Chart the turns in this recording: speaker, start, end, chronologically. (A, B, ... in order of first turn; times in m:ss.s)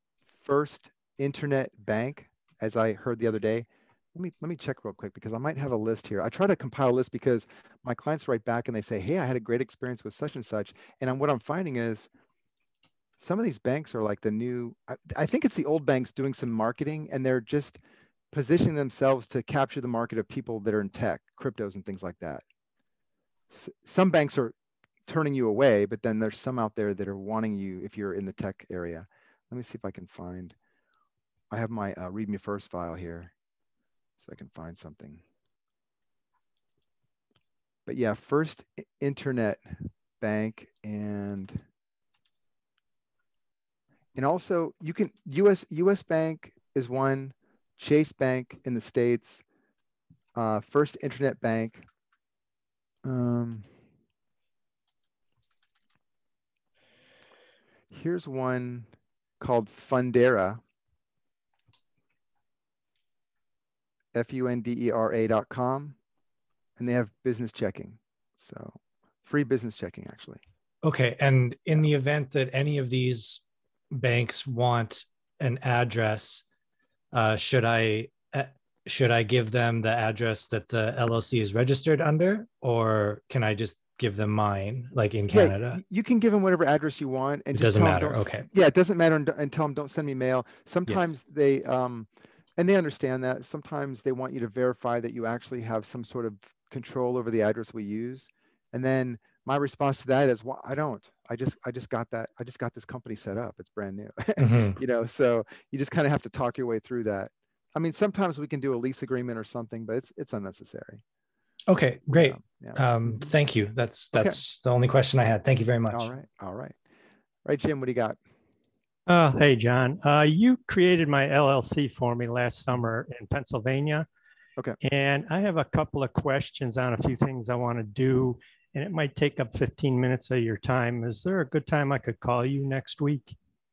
0:00.3-0:12.1 A
0:13.2-0:17.8 A
0:18.3-0:22.4 A
0:23.5-0:24.5 A
0:25.1-0:30.5 A
0:31.5-0:33.3 A
0:34.2-0:35.2 A
0:37.8-0:41.6 A
0:44.2-0:49.4 A
0:50.4-0:51.8 A
0:53.0-0:53.7 A
0:57.9-0:58.9 A
0:59.4-1:00.6 A
1:04.1-1:06.0 A
1:06.8-1:10.4 A
1:10.8-1:16.4 B
1:17.1-1:25.8 B
1:25.3-1:51.0 A
1:27.5-1:28.5 B
1:44.4-1:44.8 B
1:51.7-1:56.1 B
1:52.1-1:53.3 A
1:54.1-1:54.4 A
1:55.9-1:56.7 A
1:57.4-1:58.2 A
1:59.1-2:04.0 C
2:04.8-2:13.3 C